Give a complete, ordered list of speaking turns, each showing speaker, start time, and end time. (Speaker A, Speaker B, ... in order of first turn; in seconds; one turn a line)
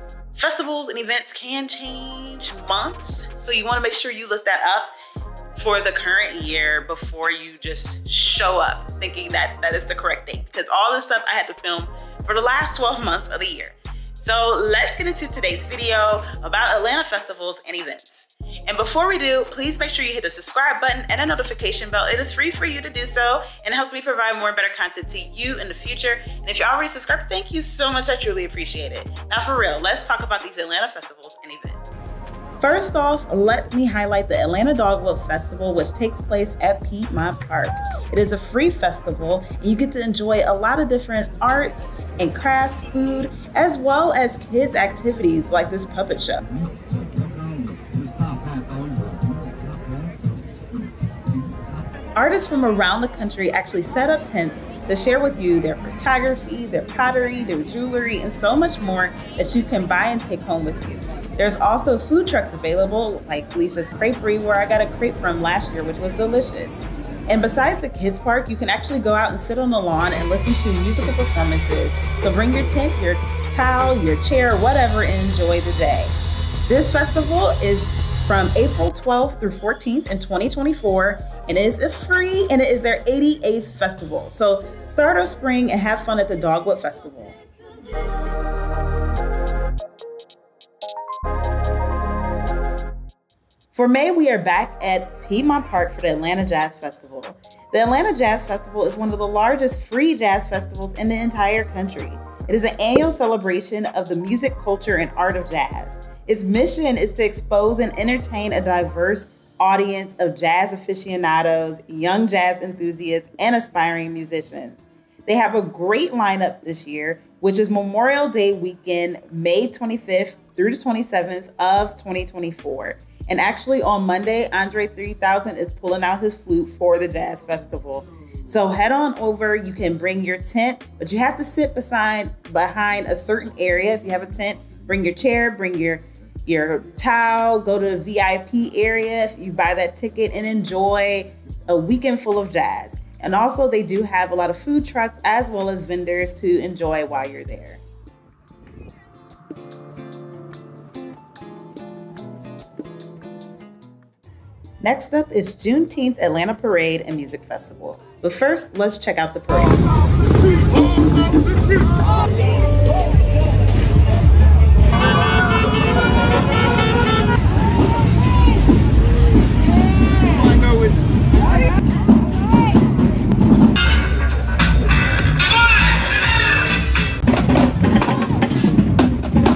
Speaker A: 0.3-4.9
Speaker A: 5.5-31.9
Speaker A: 32.6-46.4
Speaker A: 52.1-76.1
Speaker A: 76.7-87.4
Speaker A: 93.7-147.8
Speaker A: 154.8-159.8